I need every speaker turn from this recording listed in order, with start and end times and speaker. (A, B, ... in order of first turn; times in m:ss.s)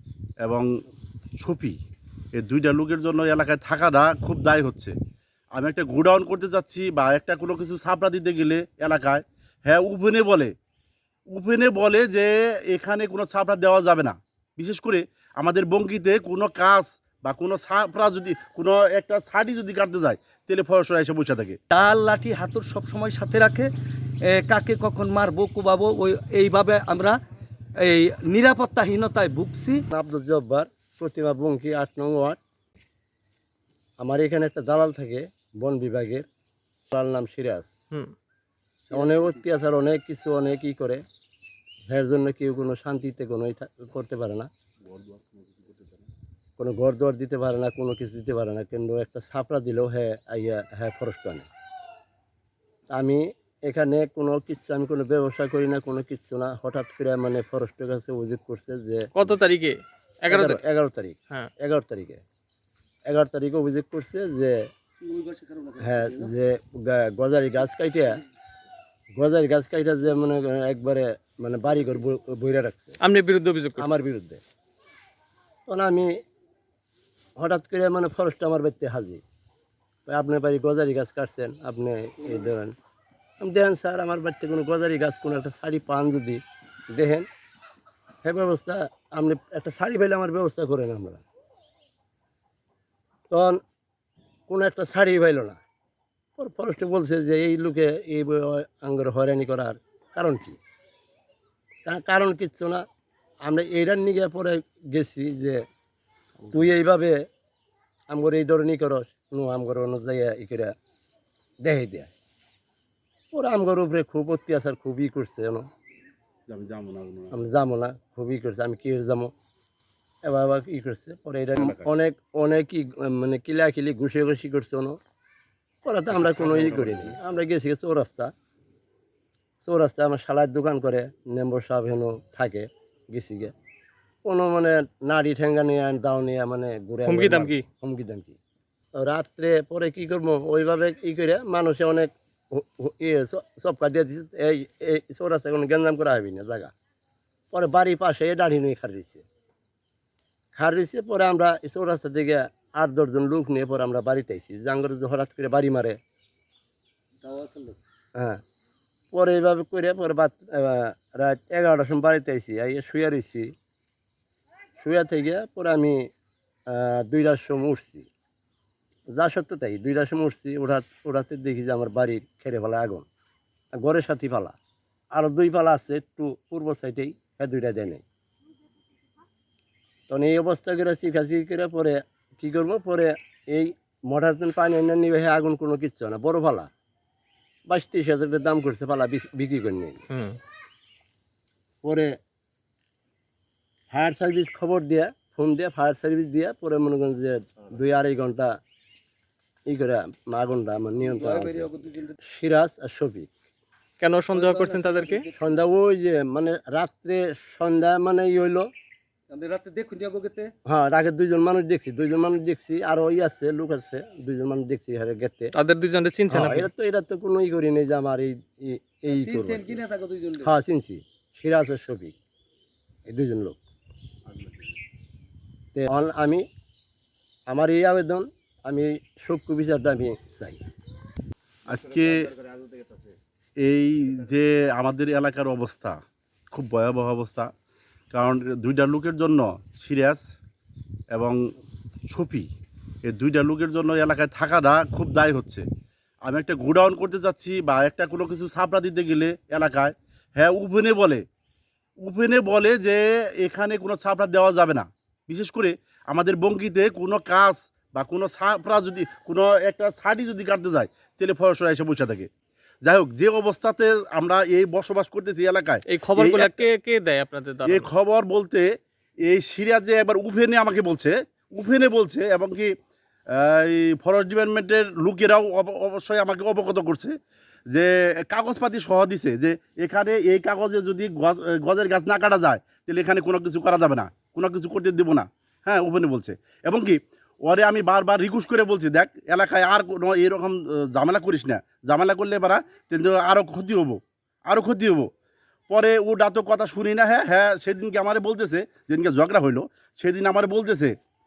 0:00.4-0:00.7 A
0:01.4-0:01.8 A
0:02.3-0:04.9 A
0:05.5-0:10.5 A
0:11.3-0:21.6 A
0:21.7-0:23.7 B
0:24.2-0:27.2 B
0:27.8-0:29.8 B
0:29.9-0:32.4 C
0:34.0-0:36.2 C
0:36.9-0:37.7 C
0:38.9-0:41.0 C
0:41.9-0:44.5 C
0:44.9-0:45.9 A
0:46.6-0:51.5 C
0:52.9-0:59.1 C
0:59.1-1:00.6 D
1:00.3-1:02.2 C
1:03.1-1:04.6 C
1:05.0-1:06.3 B
1:05.8-1:08.2 C
1:09.1-1:13.0 C
1:13.0-1:13.9 D
1:13.8-1:14.4 C
1:15.7-1:16.2 C
1:17.4-1:19.2 C
1:20.1-1:22.7 C
1:23.4-1:27.3 C
1:28.2-1:31.2 C
1:33.3-1:33.6 C
1:34.5-1:35.6 C
1:36.4-1:40.6 C
1:41.8-1:42.8 C
1:43.4-1:45.6 C
1:46.5-1:47.2 C
1:48.1-1:50.7 C
1:51.6-1:52.1 C
1:53.3-1:55.7 C
1:56.5-1:57.4 A
1:57.3-1:59.3 C
2:00.2-2:05.0 C
2:01.6-2:01.9 A
2:05.8-2:08.3 C
2:06.1-2:07.2 A
2:09.6-2:13.5 C
2:14.2-2:18.4 C
2:17.1-2:17.6 D
2:19.0-2:26.7 C
2:27.5-2:29.2 C
2:30.5-2:36.0 C
2:37.2-2:37.8 B
2:39.1-2:43.5 C
2:44.8-2:46.1 C
2:46.7-2:48.1 C
2:49.1-2:53.0 C
2:53.8-2:54.6 C
2:55.1-2:58.0 C
3:00.1-3:06.7 C
3:07.7-3:10.0 C
3:10.1-3:10.4 D
3:11.8-3:12.2 C
3:13.9-3:18.6 C
3:19.7-3:23.3 C
3:21.0-3:22.2 B
3:24.0-3:25.2 D
3:24.3-3:25.5 B
3:25.4-3:28.7 C
3:29.3-3:30.5 B
3:30.6-3:35.5 C
3:35.5-3:36.7 D
3:36.3-3:39.8 C
3:39.1-3:40.5 B
3:40.4-3:42.1 C
3:43.1-3:43.6 C
3:45.7-3:46.4 C
3:47.5-3:50.6 C
3:51.7-3:52.3 A
3:53.6-3:56.0 A
3:56.5-3:57.5 A
3:58.1-4:00.2 A
4:01.1-4:01.4 A
4:02.1-4:02.5 A
4:03.0-4:05.6 A
4:06.2-4:11.2 A
4:12.0-4:22.3 A
4:22.8-4:26.6 A
4:25.9-4:27.9 D
4:27.7-4:28.7 A
4:29.2-4:32.7 A
4:33.3-4:37.2 A
4:37.7-4:55.1 A
4:55.7-5:01.0 A